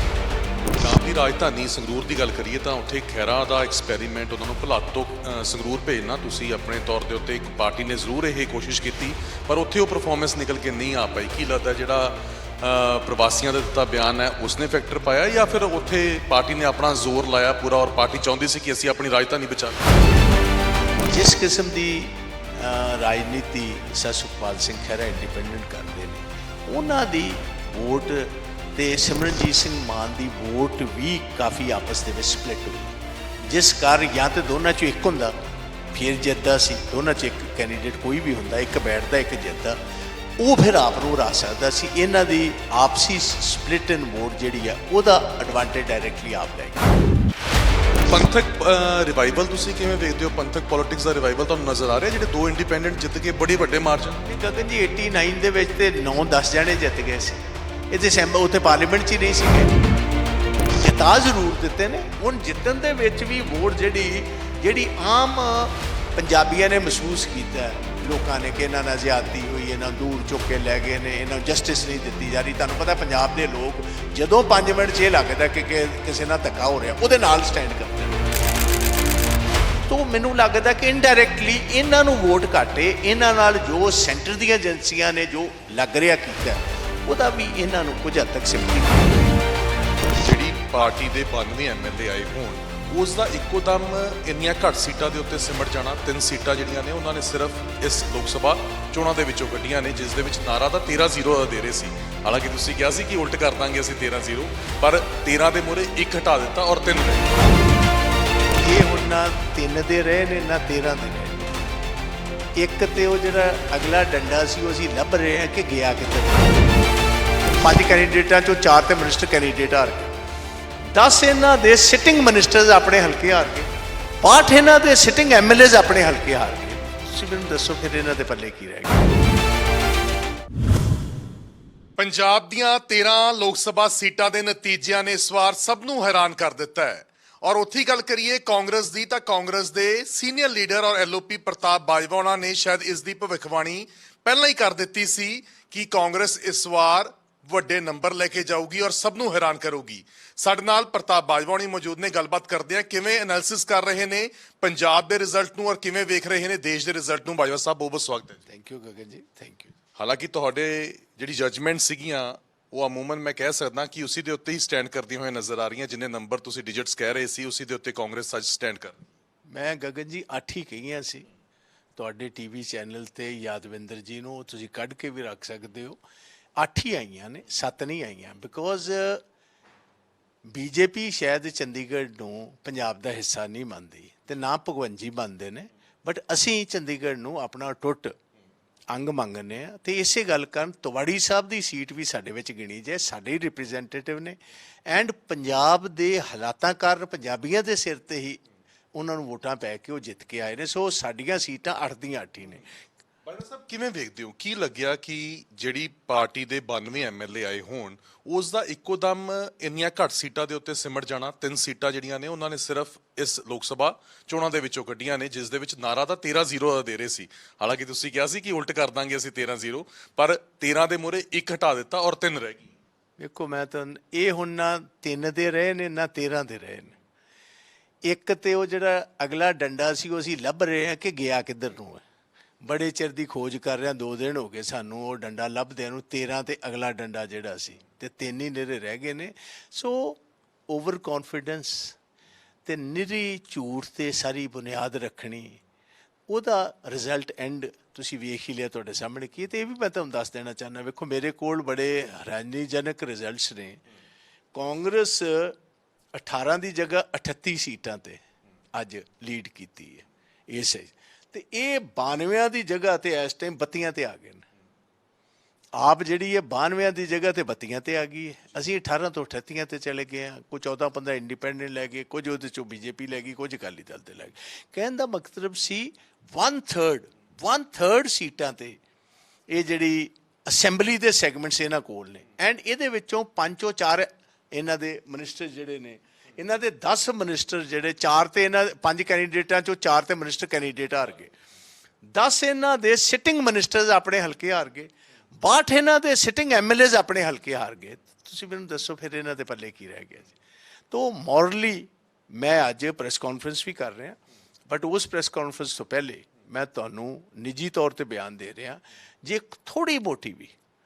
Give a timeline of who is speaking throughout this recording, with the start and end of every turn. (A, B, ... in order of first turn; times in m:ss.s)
0:00.8-0:19.9 A
0:21.0-0:35.3 B
0:35.9-0:39.8 B
0:40.4-0:46.9 B
0:48.1-0:54.2 A
0:54.2-0:59.7 B
1:00.8-1:18.3 B
1:19.9-1:29.3 B
1:30.2-1:47.3 A
1:48.6-1:51.6 B
1:52.6-1:56.7 B
1:57.6-2:00.1 B
2:00.9-2:03.7 B
2:04.2-2:09.2 B
2:12.0-2:38.5 A
2:38.5-2:39.7 B
2:40.0-2:49.0 A
2:49.5-2:51.3 B
2:52.0-2:56.0 B
2:56.6-2:59.2 B
3:00.5-3:08.2 B
3:08.9-3:18.4 B
3:18.9-3:22.7 B
3:23.2-3:42.7 A
3:43.2-3:46.9 B
3:48.0-3:52.0 B
3:52.6-4:02.0 B
4:02.6-4:05.6 B
4:06.3-4:13.8 B
4:14.5-4:15.6 B
4:16.1-4:18.2 B
4:18.7-4:24.4 B
4:25.8-4:38.8 B
4:39.5-4:51.3 B
4:52.1-5:00.4 B
5:00.9-5:10.5 B